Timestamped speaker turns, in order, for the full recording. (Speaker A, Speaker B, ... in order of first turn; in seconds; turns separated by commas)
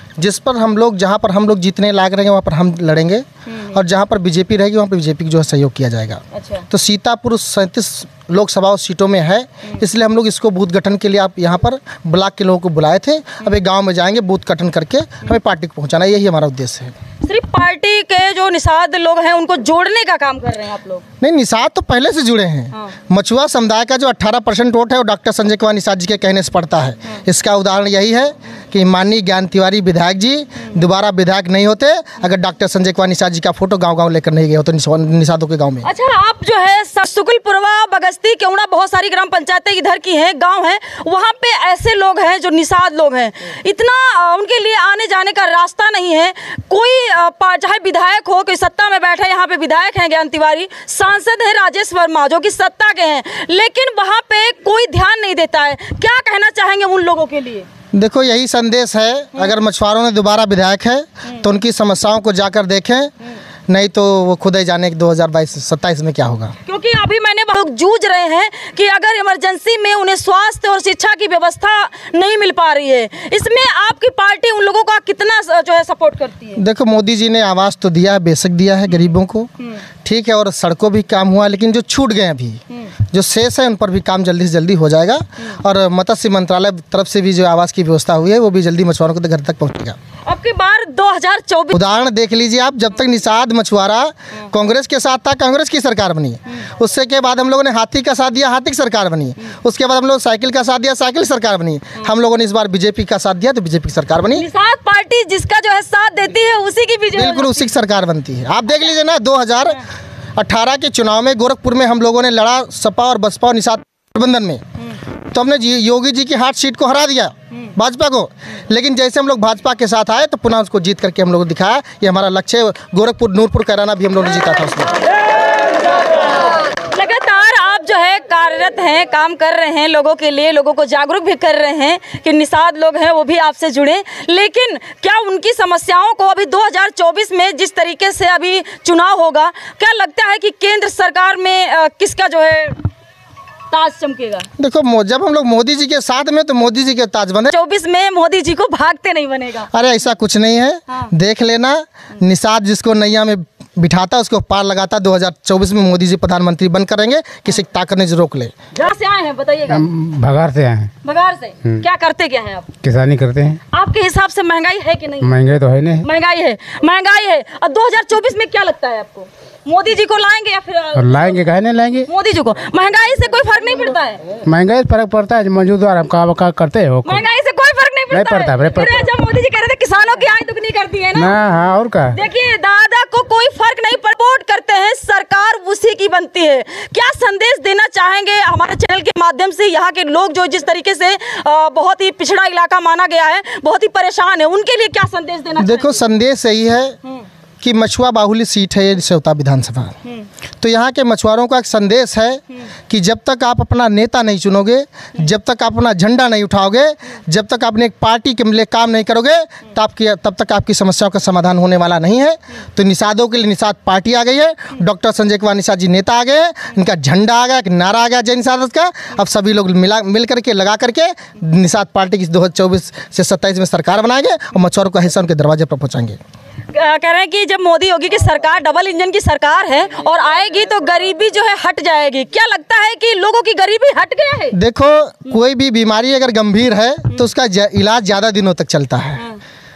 Speaker A: 0.2-16.9, Speaker B: 3.5-3.8, Speaker B: 6.3-6.7, Speaker B: 17.2-21.0, Speaker A: 21.2-35.9, Speaker B: 35.8-57.7, Speaker A: 57.9-63.1, Speaker A: 63.7-66.5, Speaker B: 66.6-76.6, Speaker A: 76.5-79.5, Speaker A: 80.0-90.0, Speaker B: 90.2-91.8, Speaker A: 91.7-104.5, Speaker B: 104.3-107.7, Speaker A: 107.1-109.8, Speaker A: 110.4-114.6, Speaker A: 115.3-125.0, Speaker B: 126.8-142.9, Speaker B: 143.7-144.5, Speaker A: 144.6-147.5, Speaker B: 147.5-149.7, Speaker A: 149.7-158.5, Speaker B: 158.7-159.9, Speaker C: 159.7-160.9, Speaker B: 161.0-162.7, Speaker C: 162.8-163.6, Speaker B: 163.7-165.3, Speaker C: 165.2-166.0, Speaker B: 166.0-171.5, Speaker C: 170.9-172.1, Speaker B: 172.1-174.2, Speaker C: 174.4-177.2, Speaker B: 177.0-181.4, Speaker C: 178.1-179.0, Speaker C: 181.1-182.2, Speaker B: 182.1-196.0, Speaker A: 195.6-196.9, Speaker A: 197.6-199.9, Speaker A: 200.6-226.2, Speaker B: 226.7-234.6, Speaker A: 234.5-239.2